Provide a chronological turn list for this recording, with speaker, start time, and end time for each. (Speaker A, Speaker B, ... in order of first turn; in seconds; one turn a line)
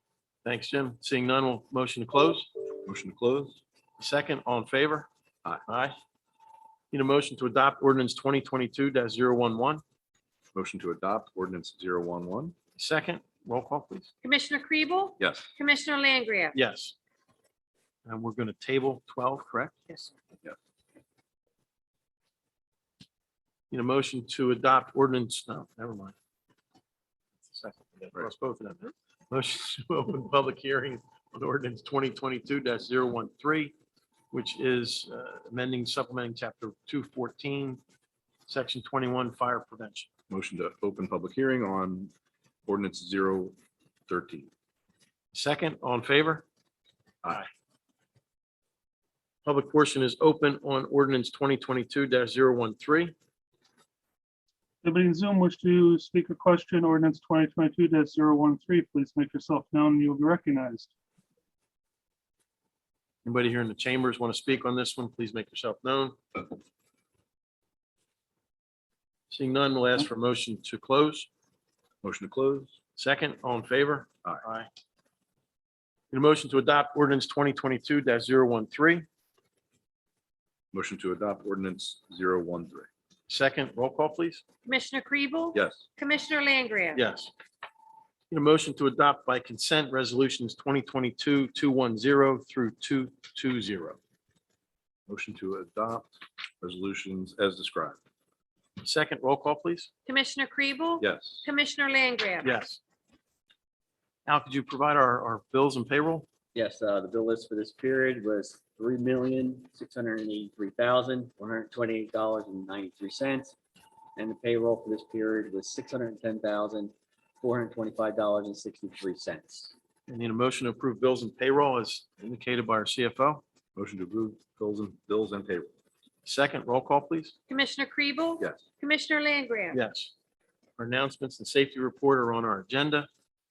Speaker A: 0.4-2.5
Speaker B: 2.8-3.6
Speaker A: 4.0-5.1
Speaker A: 5.7-6.0
Speaker A: 6.9-9.8
Speaker B: 10.5-12.5
Speaker A: 12.8-14.1
Speaker C: 14.2-16.6
Speaker B: 15.2-15.5
Speaker A: 16.5-16.9
Speaker A: 18.1-19.9
Speaker A: 23.7-26.1
Speaker A: 27.4-33.7
Speaker A: 34.3-37.8
Speaker A: 38.5-40.1
Speaker B: 40.3-42.1
Speaker B: 42.6-43.5
Speaker B: 44.1-44.5
Speaker A: 45.3-46.4
Speaker A: 49.4-53.1
Speaker D: 54.8-60.9
Speaker A: 63.2-66.5
Speaker A: 69.3-71.3
Speaker B: 72.0-72.7
Speaker A: 73.0-74.7
Speaker A: 76.1-79.1
Speaker B: 80.7-82.9
Speaker A: 83.3-84.4
Speaker C: 84.6-87.0
Speaker B: 85.5-85.8
Speaker A: 86.9-87.3
Speaker A: 88.3-94.0
Speaker B: 95.1-98.0
Speaker A: 98.8-99.9
Speaker C: 100.0-102.5
Speaker B: 101.0-101.5
Speaker A: 102.4-102.8
Speaker A: 104.2-106.3
Speaker E: 106.5-113.5
Speaker E: 114.2-119.7
Speaker A: 120.1-123.4
Speaker B: 123.8-125.7
Speaker A: 126.2-127.3
Speaker C: 127.5-129.8
Speaker A: 129.7-130.1
Speaker A: 130.8-133.1